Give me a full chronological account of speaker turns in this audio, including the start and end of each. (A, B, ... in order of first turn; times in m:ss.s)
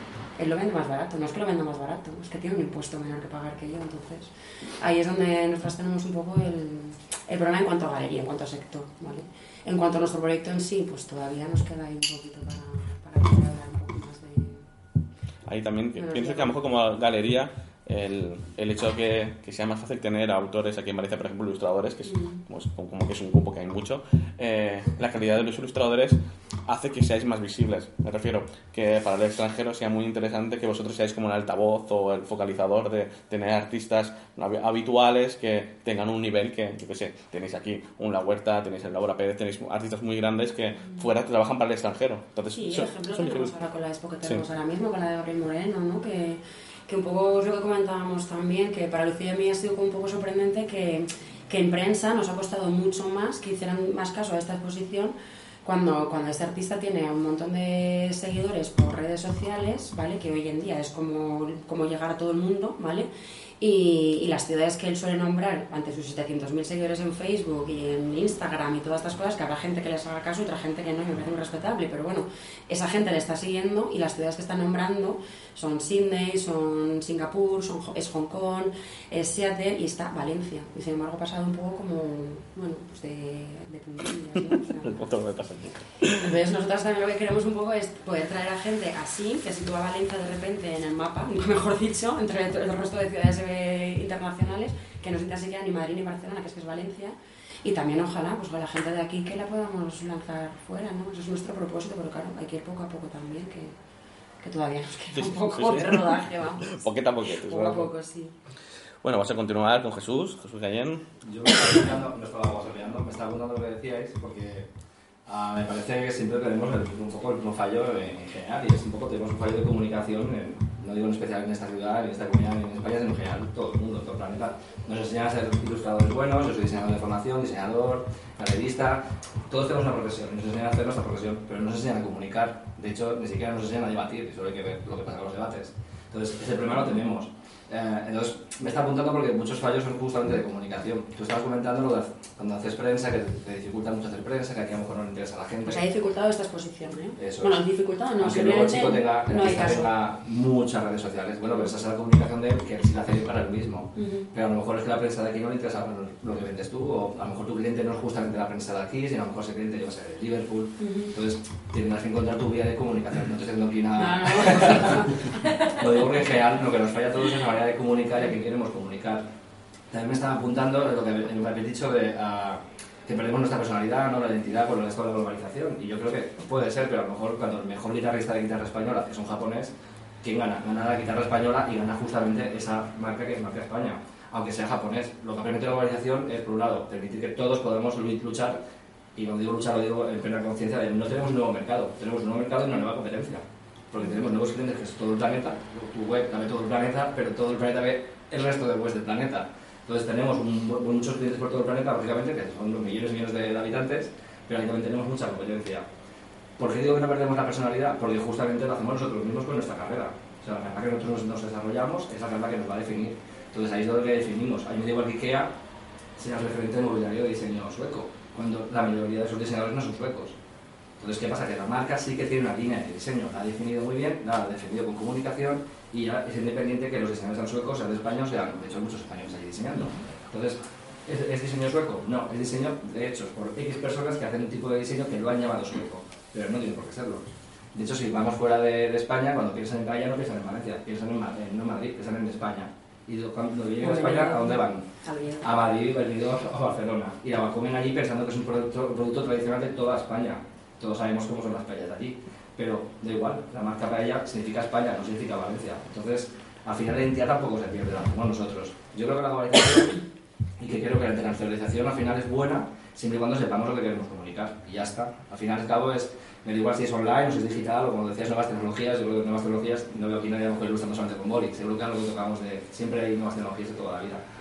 0:00.4-0:14.7 A
0:15.5-0:43.6 B
0:16.0-0:16.5 A
0:22.1-0:22.4 A
0:42.6-1:03.1 A
1:03.6-1:25.0 A
1:24.8-1:26.2 B
1:26.1-1:43.8 A
1:44.4-1:48.4 A
1:45.1-1:47.9 B
1:49.0-1:51.1 B
1:51.2-1:54.7 C
1:55.3-2:25.8 C
2:25.7-2:29.9 A
2:27.2-2:27.6 C
2:28.2-2:45.2 C
2:34.0-2:34.3 A
2:40.8-2:41.1 A
2:44.0-2:45.8 A
2:45.8-2:49.3 C
2:49.9-2:59.7 C
3:00.2-3:08.6 C
3:09.2-3:25.9 C
3:26.6-3:35.5 C
3:36.2-3:40.4 C
3:41.0-4:04.9 C
4:03.8-4:05.5 A
4:05.4-4:20.0 C
4:20.6-4:34.2 C